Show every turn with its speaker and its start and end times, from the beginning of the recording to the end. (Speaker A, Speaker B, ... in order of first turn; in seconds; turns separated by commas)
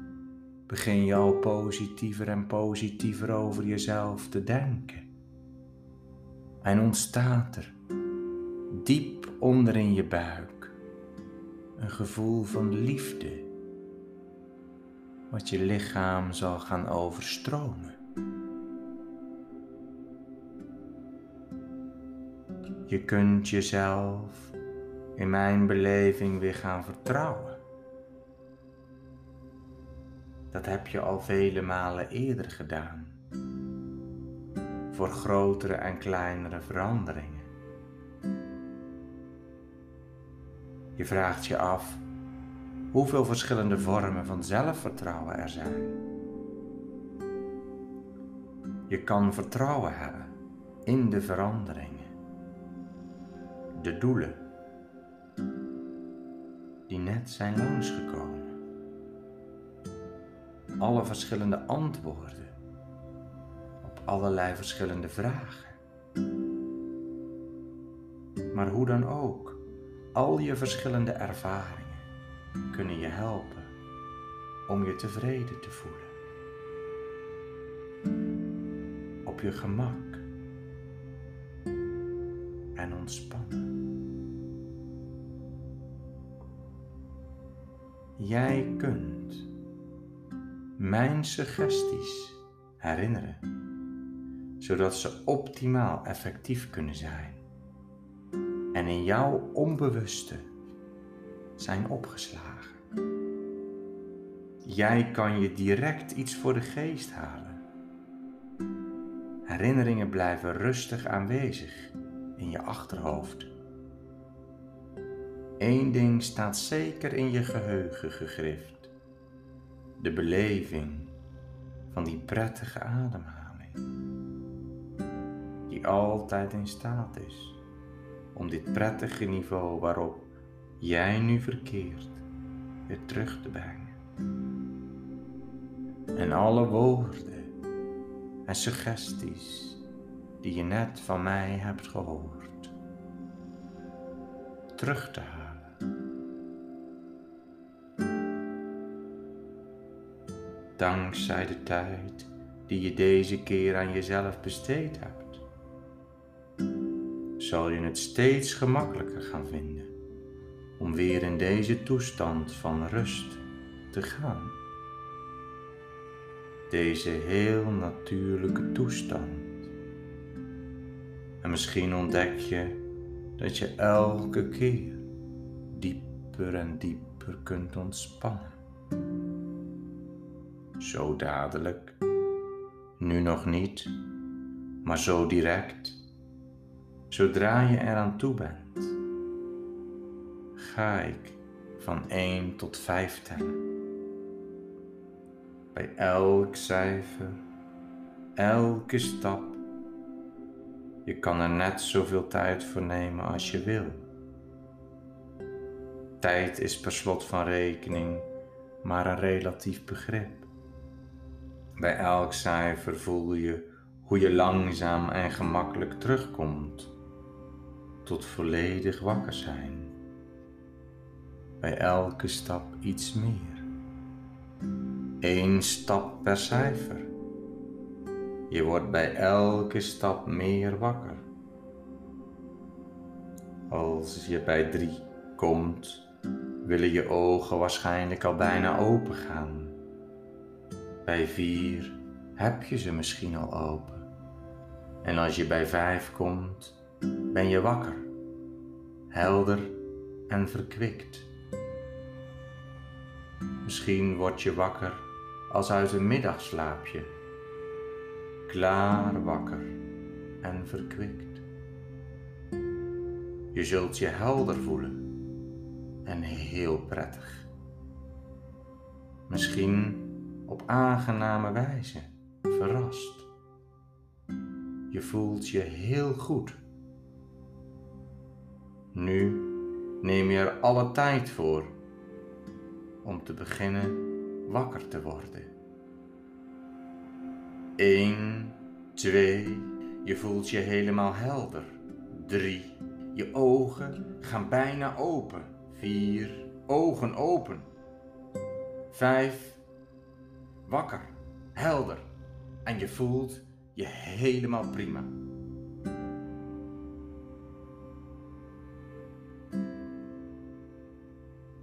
Speaker A: 0.7-5.1, Speaker A: 6.6-7.8, Speaker A: 8.7-10.8, Speaker A: 11.8-13.5, Speaker A: 15.3-18.0, Speaker A: 22.9-24.5, Speaker A: 25.1-27.6, Speaker A: 30.5-33.2, Speaker A: 34.9-37.5, Speaker A: 41.0-42.0, Speaker A: 42.9-46.0, Speaker A: 48.9-52.1, Speaker A: 53.7-54.5, Speaker A: 56.9-58.5, Speaker A: 60.8-62.6, Speaker A: 63.8-65.8, Speaker A: 68.5-69.6, Speaker A: 70.1-72.0, Speaker A: 72.7-73.7, Speaker A: 74.7-76.1, Speaker A: 79.2-80.2, Speaker A: 82.8-83.8, Speaker A: 88.2-89.5, Speaker A: 90.8-93.5, Speaker A: 94.6-97.4, Speaker A: 98.7-100.5, Speaker A: 101.6-102.8, Speaker A: 104.6-107.6, Speaker A: 109.5-113.5, Speaker A: 115.6-118.9, Speaker A: 120.0-121.2, Speaker A: 121.9-123.9, Speaker A: 125.7-127.6, Speaker A: 128.3-132.2, Speaker A: 132.9-134.0, Speaker A: 136.1-137.5, Speaker A: 138.4-139.8, Speaker A: 140.4-142.7, Speaker A: 144.8-145.8, Speaker A: 150.8-155.4, Speaker A: 157.4-159.9, Speaker A: 160.8-164.6, Speaker A: 166.7-169.6, Speaker A: 171.4-172.9, Speaker A: 173.4-175.1, Speaker A: 175.7-178.6, Speaker A: 180.8-182.0, Speaker A: 183.0-183.9, Speaker A: 184.8-186.0, Speaker A: 187.1-189.0, Speaker A: 190.6-193.6, Speaker A: 195.7-197.4, Speaker A: 198.4-199.6, Speaker A: 201.0-204.1, Speaker A: 206.2-208.3, Speaker A: 208.8-210.5, Speaker A: 211.8-216.9, Speaker A: 218.0-219.9, Speaker A: 221.6-223.7, Speaker A: 225.2-227.1, Speaker A: 228.5-231.3, Speaker A: 233.7-236.1, Speaker A: 236.6-239.8, Speaker A: 241.0-244.1, Speaker A: 245.0-246.8, Speaker A: 247.3-248.1, Speaker A: 249.1-251.3, Speaker A: 253.6-257.1, Speaker A: 258.5-259.8, Speaker A: 260.4-261.4, Speaker A: 263.5-265.1, Speaker A: 266.0-267.5, Speaker A: 269.3-273.3, Speaker A: 274.9-276.6, Speaker A: 278.9-281.8, Speaker A: 283.0-285.5, Speaker A: 287.8-297.7, Speaker A: 298.9-299.6, Speaker A: 300.6-302.1, Speaker A: 302.6-305.1